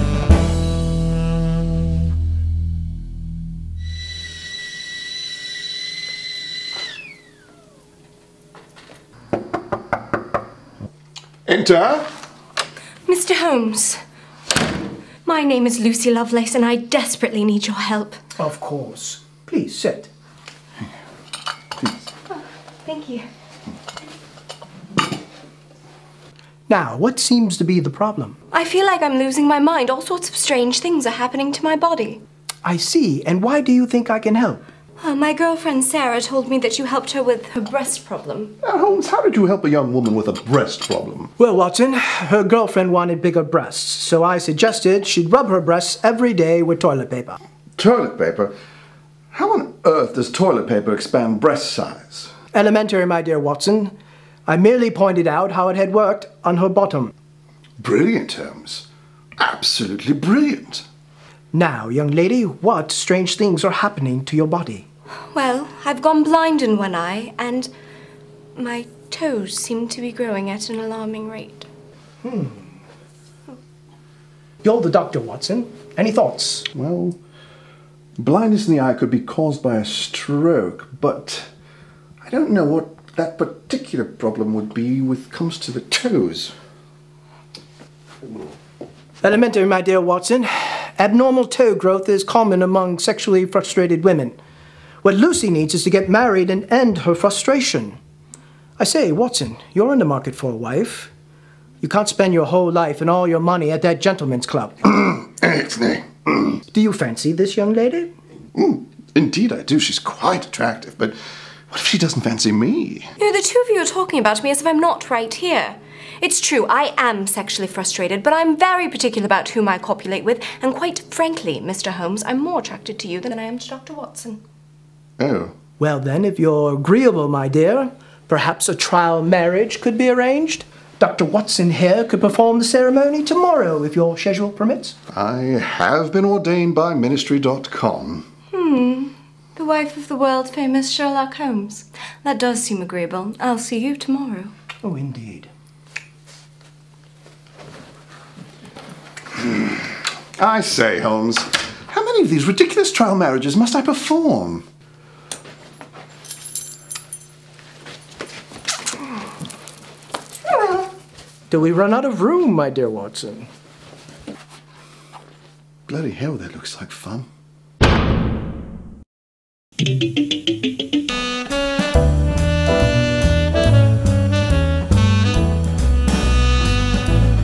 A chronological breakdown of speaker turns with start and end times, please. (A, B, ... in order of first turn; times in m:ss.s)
0:11.4-0:12.1 A
0:13.0-0:14.0 B
0:15.2-0:18.2 B
0:18.4-0:20.1 C
0:21.8-0:22.0 A
0:22.3-0:23.3 B
0:26.7-0:28.4 C
0:28.5-0:32.2 B
0:32.6-0:34.6 C
0:35.0-0:38.6 B
0:38.6-0:41.3 A
0:41.4-0:47.4 C
0:47.8-0:48.5 A
0:49.3-0:52.3 A
0:52.5-0:53.9 C
0:54.5-0:57.1 C
0:57.8-0:58.9 A
0:59.4-1:00.8 A
1:01.5-1:04.9 C
1:05.3-1:07.7 B
1:08.6-1:11.7 B
1:12.2-1:12.7 C
1:14.6-1:16.7 C
1:16.7-1:17.2 A
1:18.2-1:21.5 A
1:22.2-1:26.5 A
1:29.2-1:34.4 C
1:35.0-1:38.0 C
1:38.8-1:41.1 C
1:41.8-1:44.8 C
1:44.8-1:46.6 A
1:46.7-1:48.1 C
1:48.6-1:51.2 A
1:51.7-1:53.1 A
1:53.2-2:04.4 B
2:05.2-2:05.5 A
2:05.8-2:15.0 C
2:15.1-2:18.2 A
2:18.5-2:24.5 B
2:24.8-2:25.5 C
2:29.4-2:34.7 A
2:41.5-2:43.5 C
2:45.9-2:47.3 A